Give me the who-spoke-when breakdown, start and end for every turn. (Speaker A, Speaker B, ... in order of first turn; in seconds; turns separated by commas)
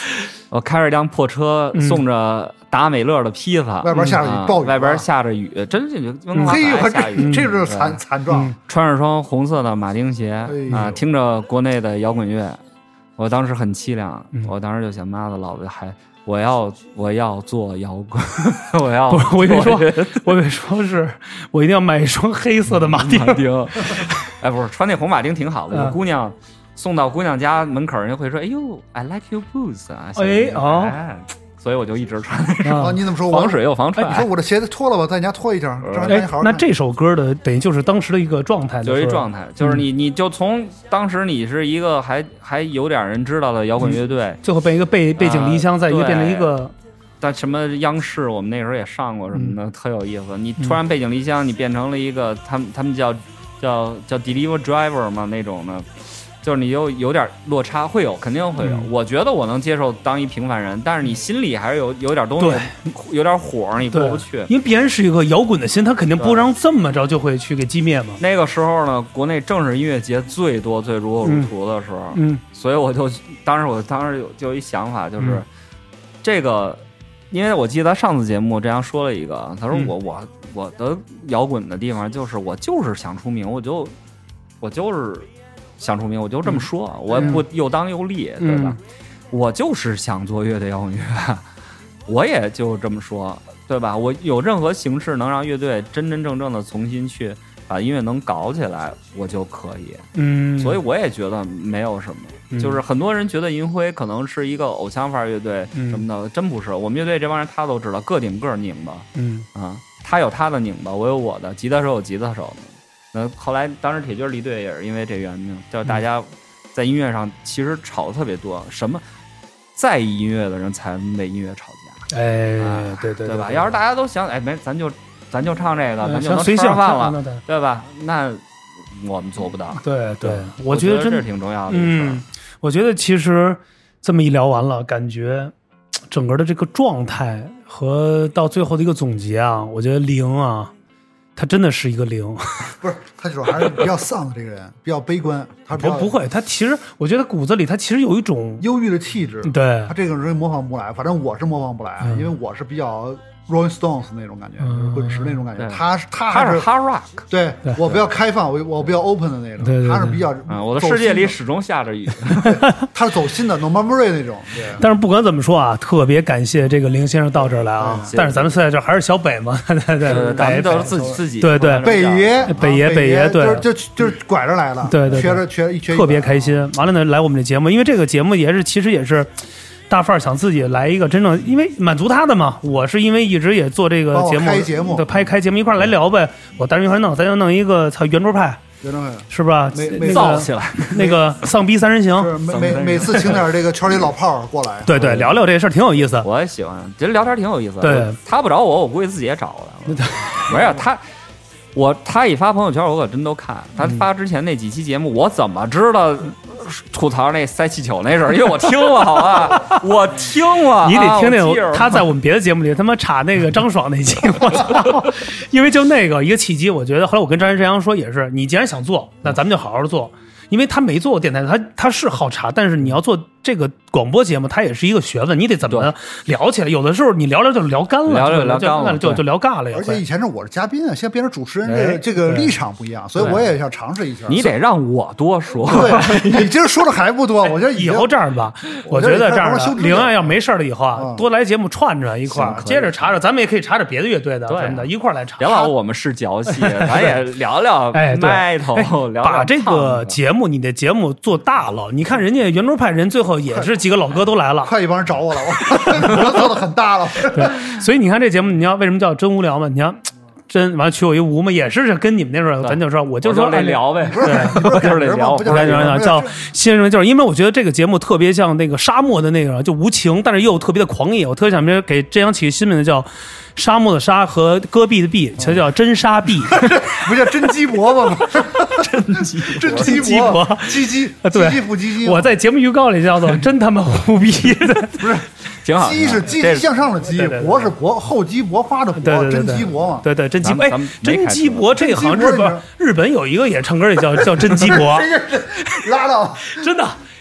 Speaker A: 0.5-8.0, Speaker B: 1.7-2.0, Speaker C: 3.8-5.0, Speaker B: 3.9-4.2, Speaker C: 6.4-8.5, Speaker B: 7.2-7.4, Speaker B: 8.3-8.5, Speaker A: 8.6-12.6, Speaker C: 10.4-11.0, Speaker A: 13.2-20.3, Speaker B: 19.1-24.0, Speaker A: 22.7-34.3, Speaker B: 30.1-30.9, Speaker B: 32.6-33.1, Speaker C: 32.8-36.6, Speaker B: 34.0-34.2, Speaker A: 35.8-36.2, Speaker B: 36.0-39.8, Speaker A: 38.8-44.4, Speaker B: 43.8-46.7, Speaker A: 45.1-46.5, Speaker A: 47.2-64.5, Speaker B: 58.6-58.9, Speaker B: 62.4-62.8, Speaker B: 63.9-68.2, Speaker A: 66.2-66.5, Speaker A: 68.2-75.5, Speaker B: 71.2-71.5, Speaker B: 72.1-72.4, Speaker A: 76.2-83.9, Speaker A: 84.6-88.8, Speaker B: 87.2-87.4, Speaker B: 88.4-88.8, Speaker A: 89.3-91.5, Speaker A: 92.1-100.1, Speaker B: 100.2-100.8, Speaker A: 100.6-119.0, Speaker B: 102.5-102.8, Speaker B: 105.7-106.0, Speaker B: 109.2-109.5, Speaker A: 119.7-122.0, Speaker B: 122.1-123.7, Speaker A: 122.6-132.2, Speaker B: 126.0-127.4, Speaker B: 129.8-135.5, Speaker B: 136.1-140.7, Speaker B: 141.3-142.8, Speaker C: 142.8-146.2, Speaker B: 145.7-148.7, Speaker C: 148.6-156.7, Speaker B: 149.4-149.9, Speaker B: 152.0-152.3, Speaker B: 154.6-155.4, Speaker A: 155.6-157.2, Speaker C: 157.3-161.4, Speaker B: 159.6-160.3, Speaker A: 160.5-162.6, Speaker C: 162.4-164.8, Speaker B: 164.8-171.9, Speaker C: 167.8-168.1, Speaker A: 168.0-168.5, Speaker A: 170.0-172.6, Speaker C: 170.4-171.2, Speaker C: 171.8-176.5, Speaker B: 172.5-173.7, Speaker B: 174.8-179.3, Speaker B: 179.9-188.6, Speaker C: 184.1-185.1, Speaker C: 188.8-191.3, Speaker B: 189.3-192.3, Speaker A: 190.0-191.0, Speaker C: 192.1-195.0, Speaker A: 192.4-193.5, Speaker B: 194.8-196.2, Speaker A: 194.9-195.4, Speaker A: 196.2-201.0, Speaker B: 197.8-198.2, Speaker B: 199.9-200.6, Speaker A: 201.7-212.1, Speaker B: 209.5-209.8, Speaker B: 210.8-230.0, Speaker A: 228.1-229.2, Speaker C: 229.7-234.5, Speaker A: 231.7-232.0, Speaker B: 232.2-232.5, Speaker A: 233.2-233.5, Speaker A: 234.3-236.4, Speaker C: 235.7-238.1, Speaker B: 235.7-236.3, Speaker B: 237.7-245.7, Speaker C: 238.8-240.3, Speaker C: 240.9-241.2, Speaker A: 242.3-243.2, Speaker A: 244.5-250.2, Speaker B: 246.5-247.2, Speaker B: 247.9-254.7, Speaker C: 254.6-257.6, Speaker B: 255.6-256.5, Speaker B: 257.3-264.9, Speaker A: 262.6-266.0, Speaker C: 264.0-266.4, Speaker B: 265.4-276.6, Speaker C: 276.5-282.3, Speaker A: 278.7-280.0, Speaker B: 279.6-285.1, Speaker C: 285.0-290.1, Speaker A: 285.5-286.7, Speaker B: 287.1-287.7, Speaker B: 289.0-295.1, Speaker A: 290.4-291.7, Speaker C: 291.7-292.6, Speaker C: 294.2-296.7, Speaker B: 296.5-297.0